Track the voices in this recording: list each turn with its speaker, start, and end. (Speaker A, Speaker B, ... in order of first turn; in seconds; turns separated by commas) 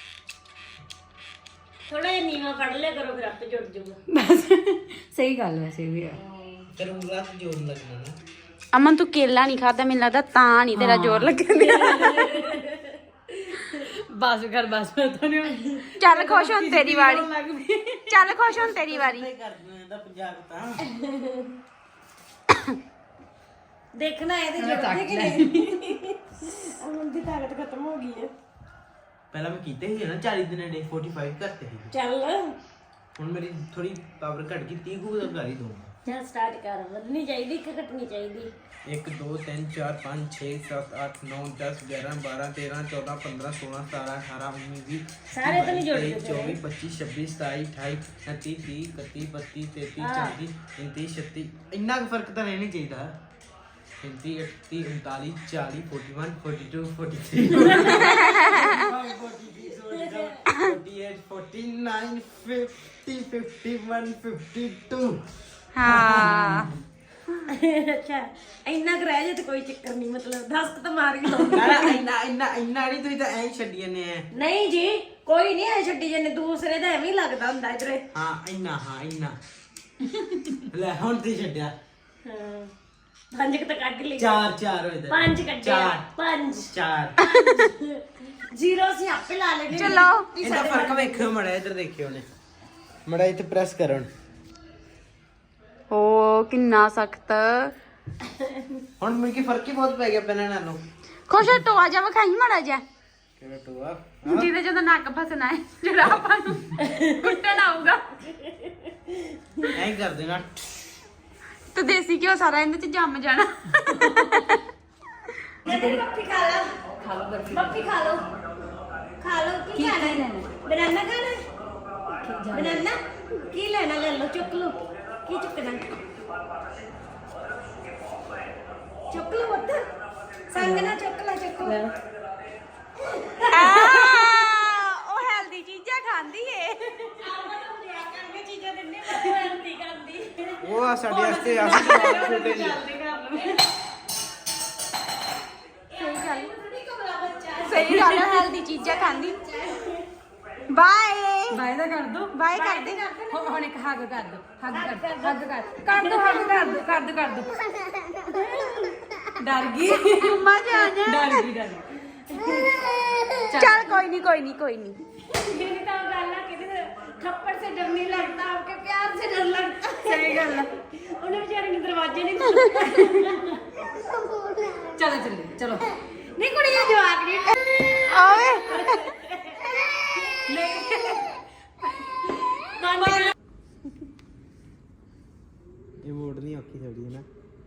Speaker A: 1.9-4.0, Speaker B: 4.1-6.2, Speaker A: 6.2-6.7, Speaker C: 6.7-8.2, Speaker D: 8.7-12.6, Speaker B: 10.7-11.4, Speaker A: 11.5-13.0, Speaker B: 13.6-18.2, Speaker D: 16.0-17.3, Speaker D: 18.1-19.3, Speaker C: 18.3-20.8, Speaker A: 20.8-21.6, Speaker A: 23.9-28.3, Speaker B: 24.6-25.8, Speaker C: 29.3-31.9, Speaker A: 31.9-32.6, Speaker C: 33.1-35.9, Speaker A: 36.0-38.5, Speaker C: 38.9-53.1, Speaker A: 45.3-46.6, Speaker A: 50.0-50.4, Speaker C: 54.0-65.2, Speaker A: 57.5-58.9, Speaker D: 58.2-58.7, Speaker A: 59.8-60.3, Speaker D: 65.7-66.7, Speaker C: 65.8-66.8, Speaker B: 66.2-66.5, Speaker A: 67.5-72.0, Speaker C: 71.4-74.2, Speaker A: 74.3-78.0, Speaker C: 78.1-79.4, Speaker C: 80.6-81.7, Speaker A: 82.2-82.7, Speaker A: 83.3-84.5, Speaker C: 84.2-86.1, Speaker A: 85.1-91.3, Speaker C: 86.7-87.2, Speaker D: 89.7-90.3, Speaker C: 90.4-92.3, Speaker C: 93.0-94.1, Speaker D: 95.9-97.7, Speaker A: 98.2-98.8, Speaker C: 99.0-100.8, Speaker D: 101.3-102.8, Speaker C: 103.4-104.5, Speaker D: 104.2-108.0, Speaker A: 106.8-107.4, Speaker A: 108.2-109.7, Speaker C: 109.7-110.5, Speaker D: 111.7-114.6, Speaker B: 115.6-116.1, Speaker A: 115.6-116.8, Speaker B: 117.0-117.9, Speaker A: 117.5-118.2, Speaker A: 119.2-121.5, Speaker B: 119.7-120.5, Speaker B: 122.2-122.8, Speaker A: 122.5-125.9, Speaker A: 129.1-129.8, Speaker A: 130.5-131.8, Speaker B: 130.5-131.0, Speaker B: 131.6-131.9, Speaker A: 133.1-134.3, Speaker D: 133.5-136.9, Speaker A: 136.9-143.6, Speaker C: 140.6-142.8, Speaker B: 141.1-143.6, Speaker D: 141.6-142.2, Speaker A: 145.9-150.1, Speaker D: 145.9-146.5, Speaker D: 147.7-149.4, Speaker D: 150.7-151.6, Speaker B: 151.5-152.3, Speaker D: 152.3-153.0, Speaker A: 152.5-153.6, Speaker B: 153.3-157.7, Speaker A: 154.7-156.8, Speaker A: 158.1-159.3, Speaker B: 159.4-162.7, Speaker D: 160.1-161.5, Speaker A: 162.3-163.7, Speaker B: 163.5-163.9, Speaker D: 163.5-165.0, Speaker A: 165.2-175.0, Speaker B: 170.0-170.7, Speaker B: 174.9-175.9, Speaker A: 176.0-181.2, Speaker D: 178.1-179.0, Speaker B: 180.5-181.3, Speaker A: 182.1-183.3, Speaker C: 186.0-187.3